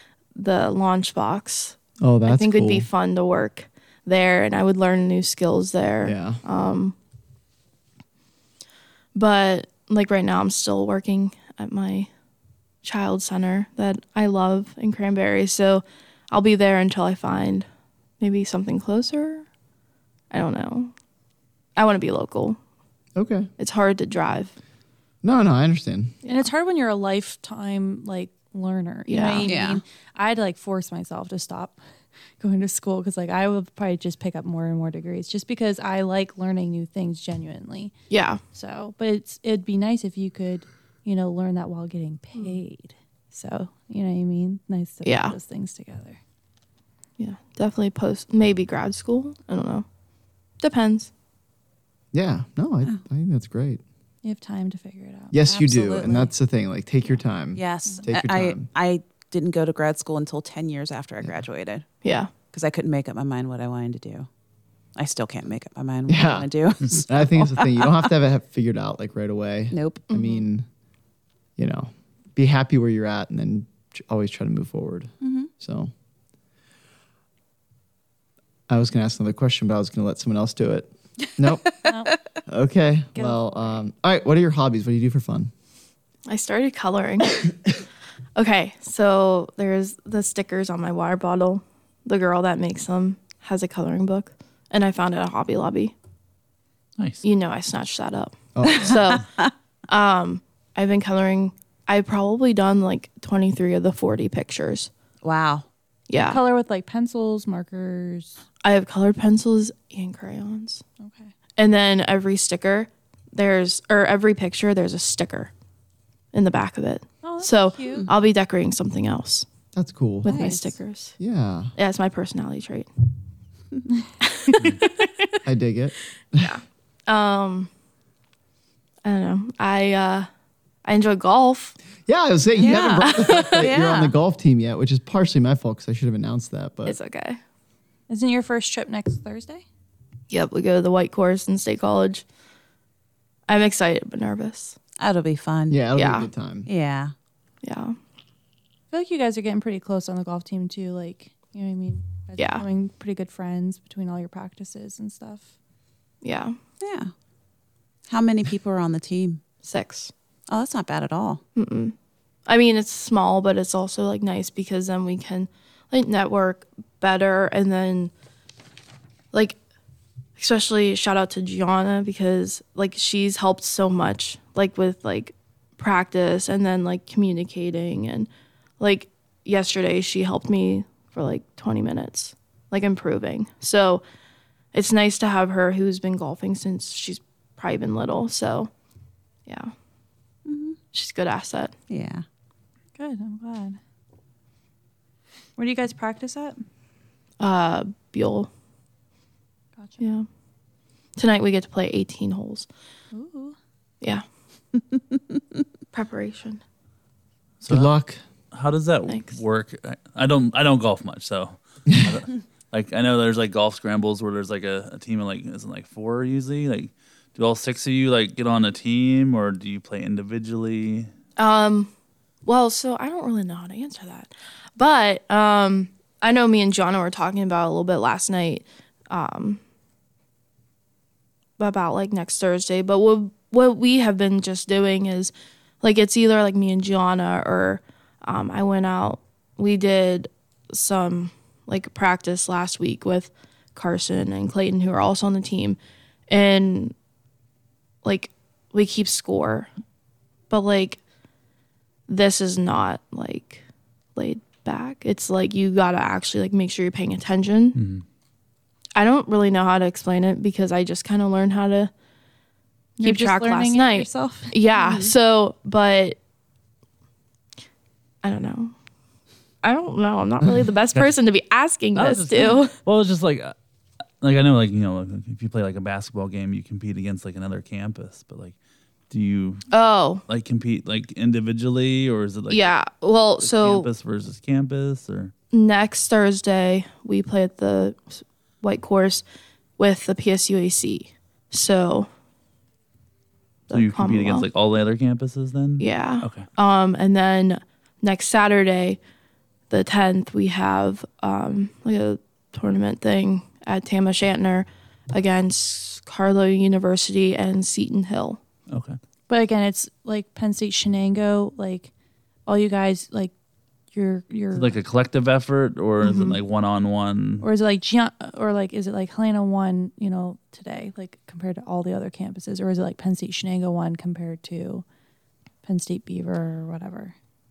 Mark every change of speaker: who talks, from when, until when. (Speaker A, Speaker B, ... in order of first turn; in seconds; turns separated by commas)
Speaker A: 0.3-6.9, Speaker B: 2.0-2.9, Speaker B: 6.0-6.4, Speaker A: 9.1-12.1, Speaker A: 12.8-17.6, Speaker A: 18.2-19.4, Speaker A: 20.3-20.9, Speaker A: 21.8-22.6, Speaker B: 23.1-23.5, Speaker A: 23.6-24.5, Speaker B: 25.2-26.1, Speaker C: 26.2-31.8, Speaker A: 29.1-29.5, Speaker D: 29.4-29.8, Speaker C: 32.4-37.9, Speaker A: 38.1-38.4, Speaker C: 38.5-46.2, Speaker A: 45.0-45.4, Speaker A: 47.2-49.9, Speaker A: 50.6-51.1, Speaker B: 52.1-53.8, Speaker C: 54.2-56.3, Speaker B: 55.3-58.7, Speaker D: 57.5-61.9, Speaker A: 62.0-62.3, Speaker D: 62.5-64.3, Speaker D: 65.0-68.0, Speaker B: 66.1-70.7, Speaker D: 69.7-70.1, Speaker A: 70.1-70.4, Speaker B: 71.6-75.9, Speaker D: 75.2-75.5, Speaker B: 78.7-81.7, Speaker D: 81.4-81.9, Speaker C: 81.8-82.1, Speaker B: 82.5-85.5, Speaker C: 83.1-83.6, Speaker A: 86.3-87.7, Speaker A: 88.3-95.9, Speaker E: 97.0-97.2, Speaker A: 97.2-99.3, Speaker B: 98.5-99.2, Speaker A: 99.9-104.9, Speaker D: 105.2-105.7, Speaker A: 106.1-106.4, Speaker C: 106.2-108.4, Speaker A: 108.6-110.8, Speaker C: 111.0-111.3, Speaker A: 111.5-115.5, Speaker A: 116.3-119.5, Speaker C: 117.2-118.1, Speaker B: 119.7-120.5, Speaker A: 120.2-121.1, Speaker D: 120.2-120.7, Speaker B: 121.2-121.7, Speaker A: 121.8-122.9, Speaker A: 124.2-125.1, Speaker B: 125.4-126.5, Speaker A: 126.4-127.7, Speaker A: 129.0-130.3, Speaker A: 130.8-131.8, Speaker B: 132.1-137.0, Speaker D: 132.6-134.2, Speaker A: 133.0-133.7, Speaker A: 136.8-137.4, Speaker C: 138.1-139.6, Speaker A: 140.3-142.2, Speaker A: 143.5-144.8, Speaker D: 145.0-145.8, Speaker B: 145.7-146.7, Speaker A: 145.9-146.3, Speaker D: 146.7-147.1, Speaker A: 147.6-148.0, Speaker C: 148.9-155.5, Speaker A: 152.4-152.6, Speaker A: 156.2-156.6, Speaker D: 156.8-157.1, Speaker D: 158.1-159.4, Speaker A: 159.6-160.1, Speaker D: 160.5-161.4, Speaker A: 161.6-161.9, Speaker A: 162.5-168.1, Speaker A: 169.3-169.6, Speaker A: 170.4-178.3, Speaker A: 178.8-184.0, Speaker A: 184.7-188.7, Speaker A: 189.5-189.7, Speaker D: 190.4-190.8, Speaker A: 190.9-191.7, Speaker D: 191.9-192.2, Speaker C: 193.0-193.8, Speaker C: 195.6-196.6, Speaker A: 197.4-198.5, Speaker A: 200.0-200.2, Speaker A: 201.2-202.7, Speaker C: 203.1-203.6, Speaker A: 205.9-206.6, Speaker E: 207.6-207.9, Speaker B: 207.7-208.2, Speaker E: 208.5-221.1, Speaker A: 209.1-209.3, Speaker B: 211.9-212.2, Speaker A: 221.4-221.9, Speaker A: 222.4-229.6, Speaker A: 231.6-246.9, Speaker A: 248.0-249.7, Speaker A: 250.5-251.0, Speaker A: 252.1-253.6, Speaker A: 254.1-257.8, Speaker E: 257.7-258.0, Speaker A: 258.9-261.9, Speaker C: 263.0-264.6, Speaker A: 263.0-266.2, Speaker D: 264.8-265.1, Speaker A: 268.2-268.7, Speaker A: 269.6-272.7, Speaker E: 271.9-273.5, Speaker E: 274.2-278.6, Speaker E: 279.1-279.6, Speaker A: 279.7-280.2, Speaker E: 280.3-282.7, Speaker A: 282.5-283.9, Speaker E: 283.4-285.3, Speaker A: 285.5-289.2, Speaker A: 289.8-292.1, Speaker A: 293.7-294.5, Speaker E: 293.7-296.5, Speaker A: 295.8-299.0, Speaker A: 299.7-308.4, Speaker E: 308.7-309.0, Speaker C: 309.3-311.9, Speaker C: 312.4-313.3, Speaker C: 313.9-314.8, Speaker E: 314.5-317.4, Speaker A: 316.0-316.4, Speaker C: 317.4-324.8, Speaker C: 325.6-327.1